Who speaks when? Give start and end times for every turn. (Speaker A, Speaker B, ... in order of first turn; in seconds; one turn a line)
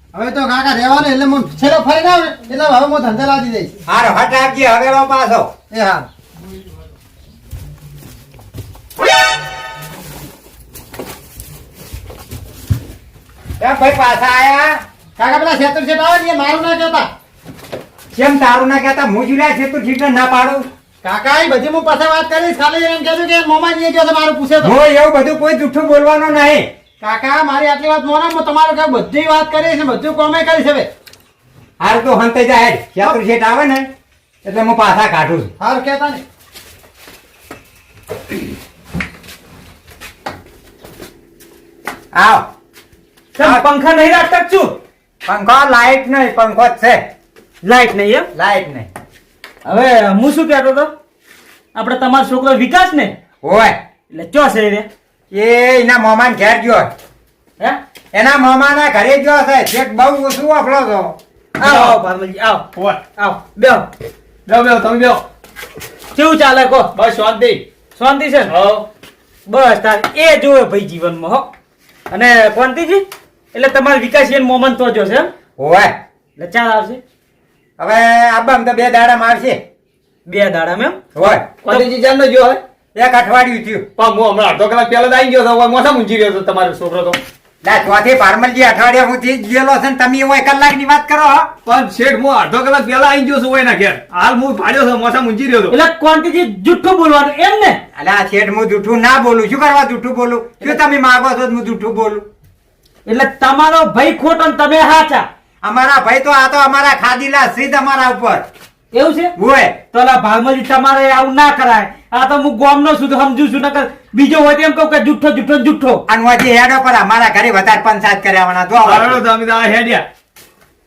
Speaker A: 0.1-3.7
Speaker B: 3.9-5.5
Speaker A: 5.7-6.0
Speaker B: 13.6-14.8
Speaker A: 15.2-17.1
Speaker B: 18.1-20.6
Speaker A: 21.0-24.8
Speaker B: 24.6-26.7
Speaker A: 27.0-30.9
Speaker B: 31.8-33.9
Speaker B: 34.4-35.5
Speaker A: 35.6-36.2
Speaker B: 42.1-42.5
Speaker C: 43.3-44.8
Speaker B: 45.2-47.0
Speaker C: 47.6-48.3
Speaker B: 48.3-48.9
Speaker C: 49.6-50.9
Speaker C: 51.7-53.1
Speaker B: 53.4-53.7
Speaker C: 54.1-54.9
Speaker B: 55.3-56.9
Speaker B: 58.1-61.1
Speaker C: 61.6-63.9
Speaker D: 61.6-61.9
Speaker D: 62.7-63.0
Speaker D: 64.5-65.2
Speaker C: 66.1-66.9
Speaker D: 66.9-67.6
Speaker C: 68.0-68.5
Speaker D: 68.5-68.9
Speaker C: 69.5-71.5
Speaker C: 72.1-75.3
Speaker B: 75.6-75.9
Speaker C: 76.4-77.0
Speaker B: 77.8-79.6
Speaker C: 80.2-81.0
Speaker B: 81.1-81.5
Speaker D: 81.6-82.6
Speaker B: 82.9-83.8
Speaker D: 84.0-87.2
Speaker B: 87.6-91.5
Speaker D: 91.6-95.7
Speaker C: 95.7-97.8
Speaker B: 98.0-102.2
Speaker C: 103.0-105.2
Speaker B: 105.6-108.4
Speaker C: 108.9-109.3
Speaker B: 109.4-109.7
Speaker C: 109.9-116.0
Speaker B: 116.1-119.2
Speaker D: 118.8-120.1